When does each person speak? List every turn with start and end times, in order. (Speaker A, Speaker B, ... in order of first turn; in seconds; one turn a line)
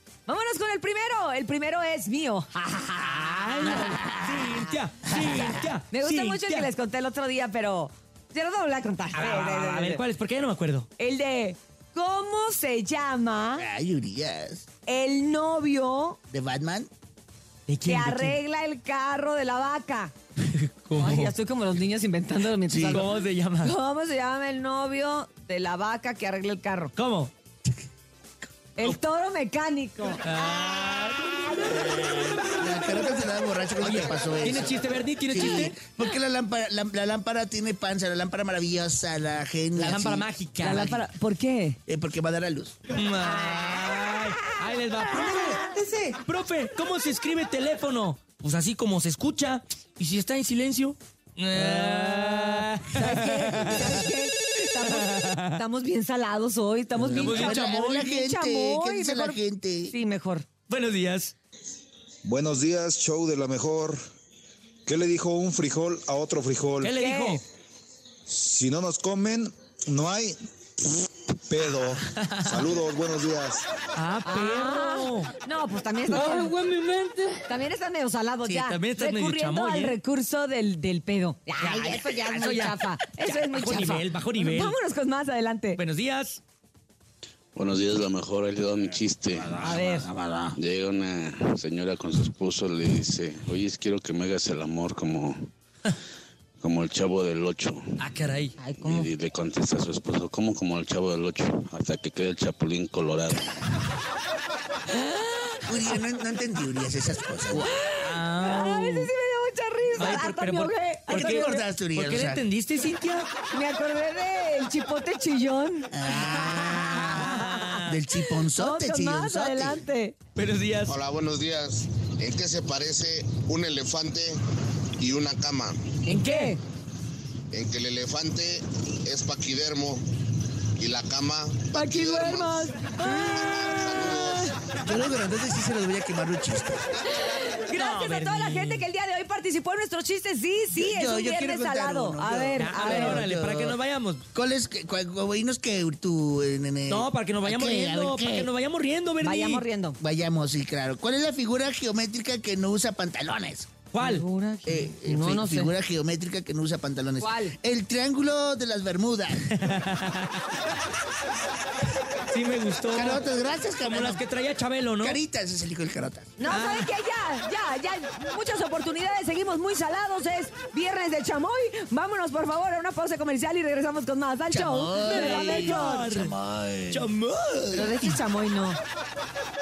Speaker A: 0.3-4.2
Speaker B: 3.2-6.7
Speaker A: 5.9-10.0
Speaker B: 9.1-10.9
Speaker A: 11.0-13.6
Speaker C: 13.6-14.7
Speaker A: 14.8-16.2
Speaker C: 16.3-16.9
Speaker B: 17.7-18.4
Speaker A: 17.8-20.1
Speaker B: 20.5-21.3
Speaker A: 20.9-23.1
Speaker C: 22.7-23.1
Speaker B: 22.9-23.7
Speaker A: 23.6-26.9
Speaker B: 26.9-27.3
Speaker A: 28.8-30.2
Speaker B: 30.2-32.6
Speaker A: 31.4-31.9
Speaker C: 32.4-41.0
Speaker B: 33.8-35.8
Speaker B: 39.8-40.9
Speaker A: 40.6-41.8
Speaker C: 41.9-42.7
Speaker B: 42.9-54.0
Speaker A: 51.5-60.5
Speaker B: 54.8-55.5
Speaker B: 57.0-58.0
Speaker C: 57.1-59.9
Speaker B: 60.7-61.3
Speaker D: 62.2-64.0
Speaker D: 64.8-66.9
Speaker B: 66.8-67.4
Speaker A: 66.9-67.4
Speaker D: 68.3-70.4
Speaker D: 71.5-73.7
Speaker B: 72.2-72.7
Speaker B: 73.9-75.3
Speaker A: 74.2-76.6
Speaker B: 76.3-77.0
Speaker A: 77.4-85.8
Speaker B: 78.5-80.0
Speaker C: 81.6-82.7
Speaker B: 82.3-84.8
Speaker B: 85.8-86.4
Speaker E: 87.5-95.5
Speaker A: 89.6-90.1
Speaker E: 96.6-98.0
Speaker B: 98.0-98.5
Speaker A: 98.6-99.1
Speaker E: 98.8-103.5
Speaker A: 104.9-105.6
Speaker C: 105.7-107.7
Speaker B: 107.5-109.1
Speaker A: 107.5-111.6
Speaker B: 110.0-113.3
Speaker C: 111.1-112.4
Speaker A: 113.5-117.8
Speaker C: 115.9-119.8
Speaker B: 116.1-118.0
Speaker A: 118.5-120.2
Speaker B: 120.3-121.0
Speaker F: 120.9-124.4
Speaker F: 125.0-126.0
Speaker A: 126.0-126.6
Speaker B: 126.1-126.6
Speaker F: 127.5-130.1
Speaker F: 130.8-134.6
Speaker A: 131.7-134.5
Speaker C: 134.8-136.9
Speaker A: 137.2-143.2
Speaker B: 137.7-138.8
Speaker C: 140.7-143.8
Speaker B: 142.6-144.2
Speaker C: 144.3-148.5
Speaker B: 146.9-149.6
Speaker A: 149.2-150.0
Speaker C: 150.0-153.7
Speaker B: 153.9-154.2
Speaker A: 154.0-155.7
Speaker C: 154.7-159.5
Speaker A: 157.2-157.5
Speaker B: 159.5-160.4
Speaker B: 162.2-163.2
Speaker C: 162.9-164.2
Speaker B: 163.8-165.2
Speaker C: 165.0-166.3
Speaker A: 166.4-176.3
Speaker B: 166.4-166.9
Speaker C: 174.5-177.1
Speaker B: 174.9-176.3
Speaker B: 176.9-177.9
Speaker C: 177.7-178.2
Speaker A: 177.7-178.8